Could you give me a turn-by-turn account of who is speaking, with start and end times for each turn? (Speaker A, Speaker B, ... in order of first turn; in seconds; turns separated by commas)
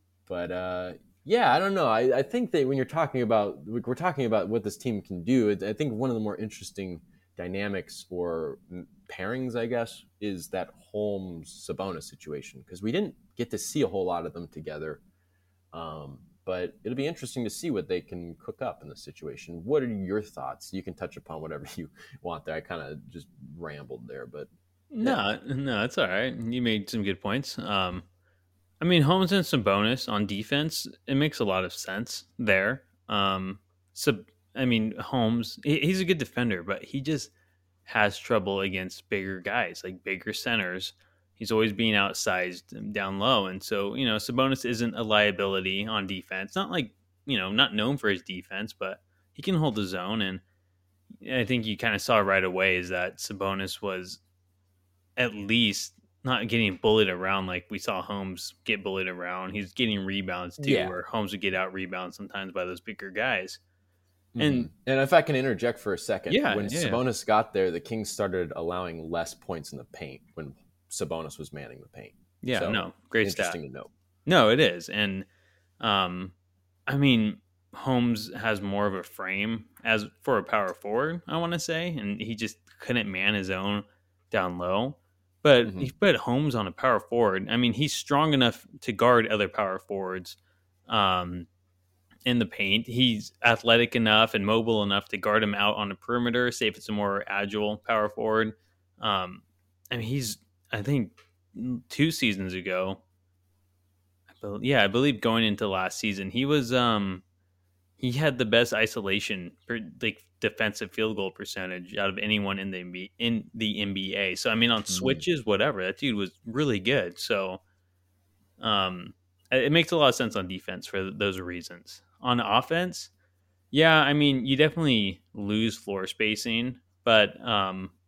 Speaker A: 0.3-15.0, Speaker A: 15.7-25.2, Speaker B: 24.9-28.0, Speaker B: 28.8-37.3, Speaker B: 37.9-50.4, Speaker B: 51.2-54.2, Speaker B: 55.2-63.6, Speaker A: 60.6-61.0, Speaker A: 64.3-73.9, Speaker B: 64.4-64.7, Speaker B: 66.3-67.0, Speaker B: 72.4-73.6, Speaker B: 74.2-75.2, Speaker B: 75.8-76.3, Speaker B: 76.9-90.4, Speaker A: 85.6-85.9, Speaker B: 90.9-91.5, Speaker B: 92.2-103.0, Speaker B: 104.4-107.2, Speaker B: 108.0-117.6, Speaker A: 114.9-115.2, Speaker B: 118.6-123.1, Speaker B: 123.7-127.9